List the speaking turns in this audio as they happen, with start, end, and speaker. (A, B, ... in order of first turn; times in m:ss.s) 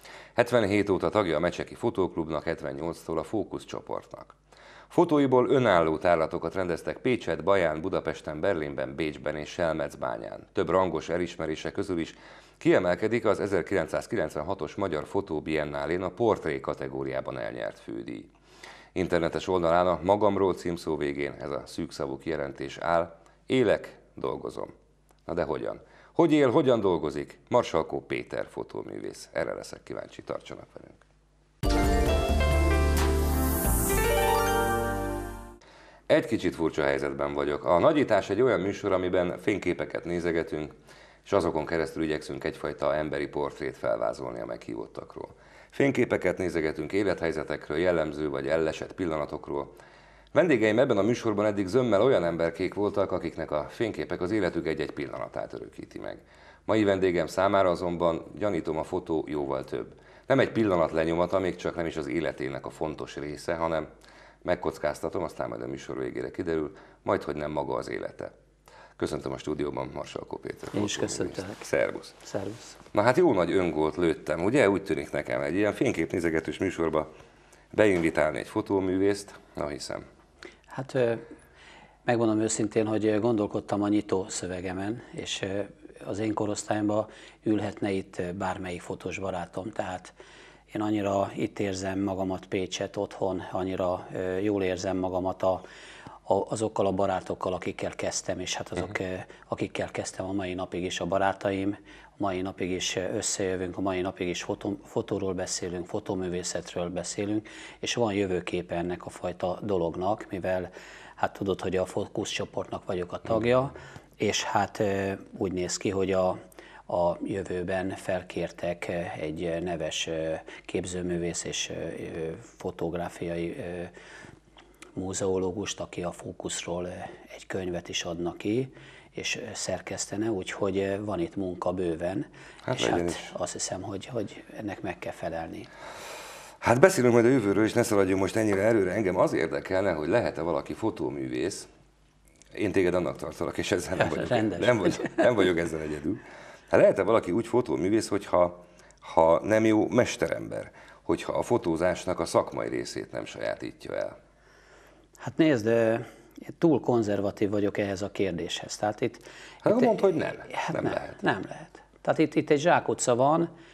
0:00.3-0:04.4 A
0:04.9-0:18.3 A
0:18.9-0:24.7 A
0:25.3-0:31.0 A
0:36.1-0:40.7 A
0:41.2-0:49.7 A
0:50.3-1:03.9 A
1:04.4-1:08.3 A
1:09.0-1:12.1 A
1:10.7-1:11.6 B
1:12.2-1:12.8 B
1:12.9-1:17.1 A
1:17.7-1:20.0 A
1:20.7-1:21.2 B
1:22.0-1:30.1 B
1:30.7-1:35.6 B
1:36.2-1:56.4 B
1:56.9-2:03.9 B
2:05.0-2:15.7 B
2:12.6-2:13.3 A
2:16.6-2:21.7 A
2:22.5-2:34.1 A
2:24.0-2:25.3 B
2:35.2-2:43.5 B
2:39.6-2:41.1 A